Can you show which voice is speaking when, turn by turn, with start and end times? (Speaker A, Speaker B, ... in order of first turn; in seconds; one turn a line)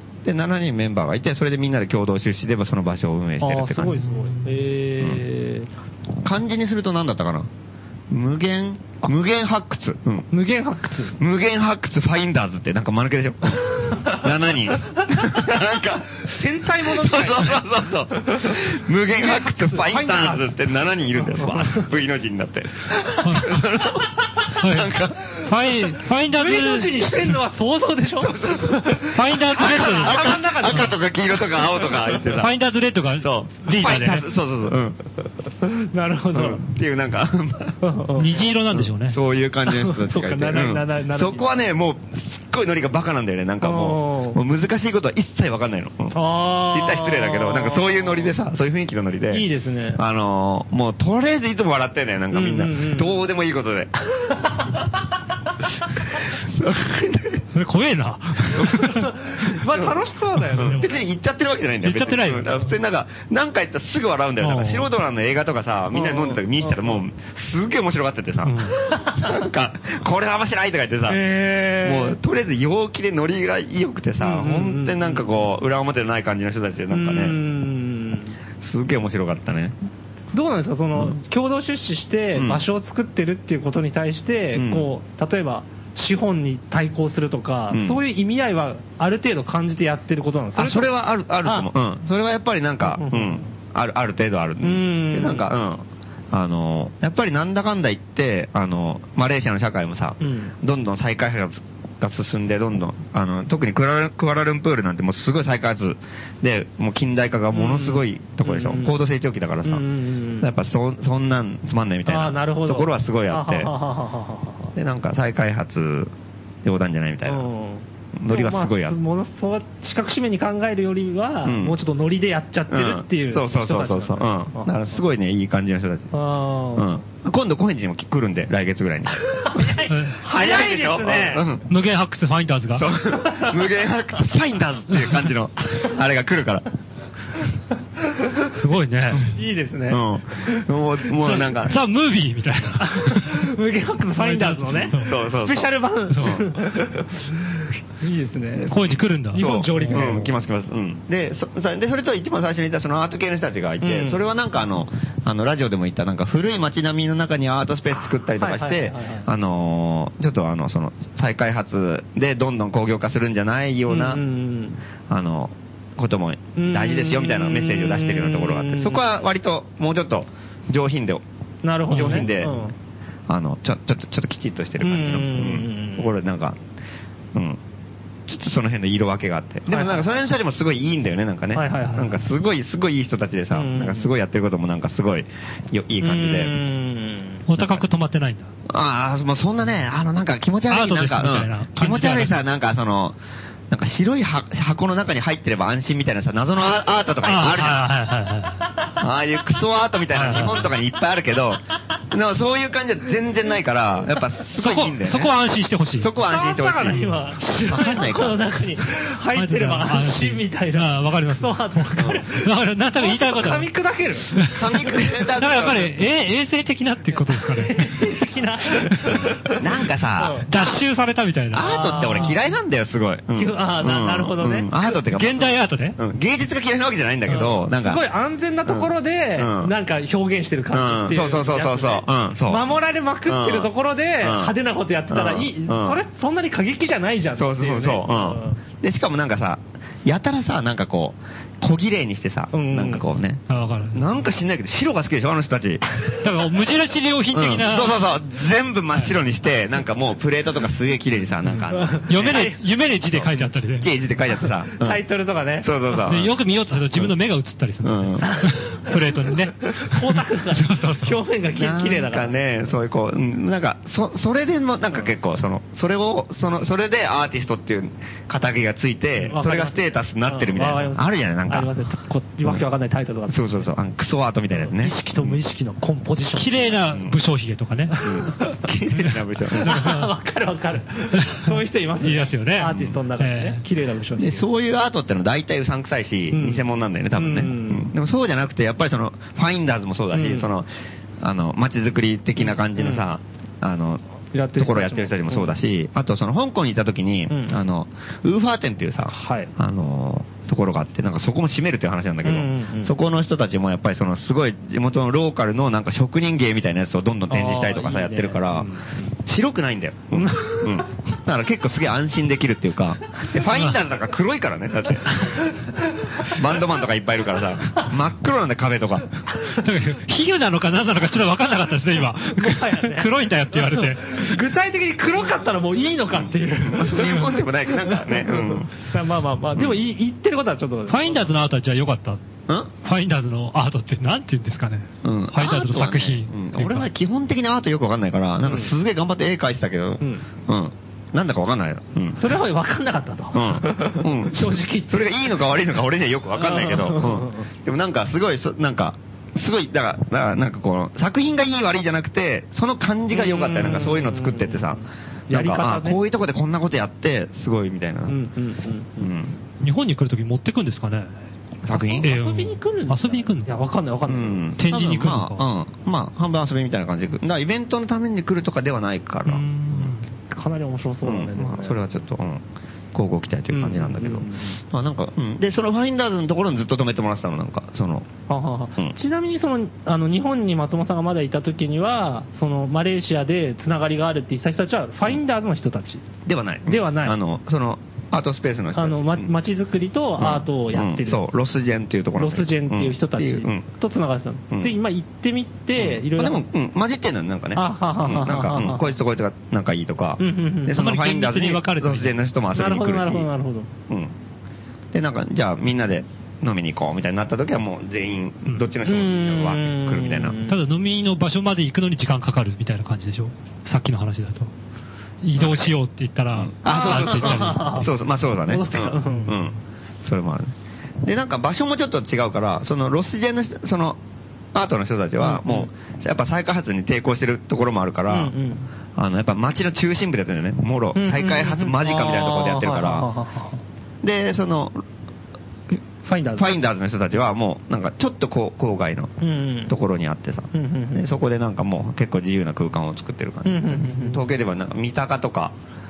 Speaker A: 0.2-4.0
Speaker B: 3.4-5.7
Speaker C: 3.9-4.6
Speaker A: 6.2-7.5
Speaker A: 8.1-10.3
Speaker B: 10.3-11.2
Speaker A: 11.2-25.5
Speaker B: 16.2-17.7
Speaker B: 19.1-20.5
Speaker B: 21.2-21.9
Speaker C: 23.2-23.6
Speaker C: 24.5-27.4
Speaker B: 26.3-31.0
Speaker A: 28.2-32.6
Speaker C: 29.1-30.9
Speaker C: 32.3-34.3
Speaker A: 33.2-35.2
Speaker B: 35.6-36.7
Speaker A: 36.3-37.8
Speaker B: 37.8-38.4
Speaker C: 38.2-39.2
Speaker A: 38.7-46.2
Speaker B: 39.7-41.6
Speaker B: 43.6-44.4
Speaker B: 46.1-48.3
Speaker A: 46.7-53.9
Speaker B: 49.3-50.0
Speaker B: 52.3-53.2
Speaker A: 56.3-57.5
Speaker C: 57.5-59.1
Speaker A: 58.6-58.9
Speaker B: 58.7-61.0
Speaker A: 59.5-60.0
Speaker C: 60.5-61.0
Speaker A: 60.5-71.3
Speaker C: 61.8-62.7
Speaker C: 64.4-64.9
Speaker B: 65.9-67.0
Speaker C: 68.4-68.8
Speaker B: 69.0-69.4
Speaker B: 71.1-72.2
Speaker A: 71.8-77.4
Speaker B: 74.2-75.5
Speaker B: 76.9-78.4
Speaker A: 78.6-79.8
Speaker B: 80.3-91.7
Speaker A: 82.3-82.7
Speaker A: 84.5-84.9
Speaker A: 87.7-88.0
Speaker A: 90.6-109.8
Speaker B: 92.8-93.5
Speaker B: 94.6-95.5
Speaker B: 100.2-100.5
Speaker B: 107.5-109.0
Speaker B: 109.7-110.5
Speaker A: 110.4-113.7
Speaker B: 112.1-114.7
Speaker A: 114.8-117.5
Speaker B: 117.2-125.0
Speaker A: 118.2-119.0
Speaker A: 121.4-121.8
Speaker A: 122.7-126.1
Speaker B: 126.1-127.0
Speaker A: 126.8-131.7
Speaker B: 129.3-131.5
Speaker C: 129.9-130.2
Speaker C: 131.7-132.9
Speaker A: 132.8-136.7
Speaker B: 133.2-133.6
Speaker C: 138.5-139.3
Speaker B: 139.3-140.7
Speaker A: 139.9-141.8
Speaker B: 141.2-141.5
Speaker C: 141.6-143.5
Speaker B: 142.8-148.7
Speaker C: 144.2-145.1
Speaker A: 144.9-147.0
Speaker A: 148.6-164.2
Speaker C: 148.7-150.2
Speaker B: 149.3-150.3
Speaker B: 153.8-154.2
Speaker B: 158.4-159.3
Speaker B: 163.9-164.8
Speaker A: 165.1-171.2
Speaker B: 166.6-169.1
Speaker B: 171.6-172.8
Speaker A: 171.9-172.6
Speaker C: 171.9-172.2
Speaker A: 173.3-176.6
Speaker B: 174.8-176.1
Speaker A: 177.3-177.6
Speaker A: 178.3-186.6
Speaker B: 179.7-180.1
Speaker B: 181.5-182.2
Speaker B: 183.5-184.1
Speaker B: 186.0-187.4
Speaker C: 187.5-188.5
Speaker A: 187.6-187.9
Speaker A: 188.7-193.2
Speaker C: 190.7-192.4
Speaker A: 193.7-197.8
Speaker C: 197.2-198.6
Speaker A: 199.0-205.3
Speaker C: 200.1-200.7
Speaker C: 204.5-206.1
Speaker A: 206.0-207.0
Speaker B: 206.2-215.0
Speaker C: 206.9-207.2
Speaker A: 207.6-208.4
Speaker C: 209.3-213.7
Speaker A: 212.0-212.2
Speaker C: 214.3-214.6
Speaker A: 214.5-216.0
Speaker C: 215.4-218.2
Speaker B: 217.3-219.6
Speaker C: 218.8-219.3
Speaker A: 219.5-220.4
Speaker B: 220.2-220.5
Speaker C: 220.5-222.3
Speaker A: 221.5-228.0
Speaker B: 221.6-222.4
Speaker B: 223.3-224.7
Speaker C: 225.1-226.0
Speaker B: 227.3-238.6
Speaker A: 228.7-229.7
Speaker A: 230.7-232.7
Speaker A: 233.3-234.6
Speaker A: 235.1-236.0
Speaker A: 237.3-246.4
Speaker B: 242.5-243.1
Speaker C: 243.5-244.2
Speaker C: 246.2-248.1
Speaker A: 247.3-255.0
Speaker B: 251.7-252.6
Speaker C: 252.1-253.9
Speaker B: 254.7-256.0
Speaker A: 255.6-256.4
Speaker C: 256.1-261.2
Speaker A: 257.8-258.4
Speaker B: 258.2-258.6
Speaker B: 259.7-262.4
Speaker A: 261.6-271.7
Speaker B: 269.3-273.7
Speaker A: 273.3-275.4
Speaker B: 274.5-276.8
Speaker C: 276.4-278.0
Speaker A: 276.8-277.2
Speaker B: 277.9-278.6
Speaker A: 278.0-279.8
Speaker B: 279.6-284.5
Speaker C: 279.6-280.1
Speaker C: 281.2-283.6
Speaker A: 282.7-283.0
Speaker A: 284.2-294.0
Speaker B: 286.3-287.9
Speaker B: 290.1-290.5
Speaker B: 292.4-293.1
Speaker B: 294.3-295.6
Speaker A: 294.6-308.7
Speaker B: 297.3-297.6
Speaker B: 299.1-299.5
Speaker B: 302.2-302.9
Speaker B: 307.3-309.1
Speaker A: 309.2-315.4
Speaker B: 310.1-310.8
Speaker A: 316.2-319.1
Speaker C: 319.5-324.4
Speaker B: 322.4-331.3
Speaker A: 326.1-328.7
Speaker C: 330.9-332.2
Speaker C: 332.8-336.9
Speaker A: 335.0-342.4
Speaker B: 338.4-338.7
Speaker B: 340.0-340.2
Speaker B: 342.1-345.5
Speaker A: 343.3-358.2
Speaker B: 346.4-347.5
Speaker B: 353.1-356.0
Speaker B: 358.1-359.1
Speaker A: 359.0-359.3
Speaker C: 359.6-361.1
Speaker A: 361.6-362.1
Speaker B: 361.7-364.5
Speaker C: 362.0-363.5
Speaker A: 364.1-369.9
Speaker C: 364.6-365.4
Speaker C: 369.3-370.1
Speaker B: 370.3-371.8
Speaker A: 371.0-378.1
Speaker B: 373.5-374.6
Speaker B: 378.3-386.1
Speaker A: 386.3-389.3
Speaker B: 386.7-387.2
Speaker B: 388.8-391.2
Speaker A: 390.2-393.7
Speaker B: 392.2-396.4
Speaker A: 395.8-403.3
Speaker B: 397.6-398.9
Speaker B: 400.2-400.8
Speaker C: 400.7-402.3
Speaker B: 402.5-403.7
Speaker A: 403.9-404.1
Speaker A: 404.9-410.4
Speaker B: 408.9-410.6
Speaker C: 410.5-414.5
Speaker C: 415.2-417.9
Speaker A: 415.4-415.7
Speaker A: 416.3-424.0
Speaker B: 416.6-417.9
Speaker B: 418.5-419.3
Speaker A: 424.5-428.3
Speaker B: 425.2-425.7
Speaker B: 428.1-428.7
Speaker A: 429.0-433.1
Speaker B: 430.9-433.6
Speaker A: 434.0-434.8
Speaker B: 436.1-436.6
Speaker A: 436.4-439.1
Speaker B: 439.2-439.7
Speaker A: 439.7-445.6
Speaker B: 440.5-441.1
Speaker B: 443.4-444.3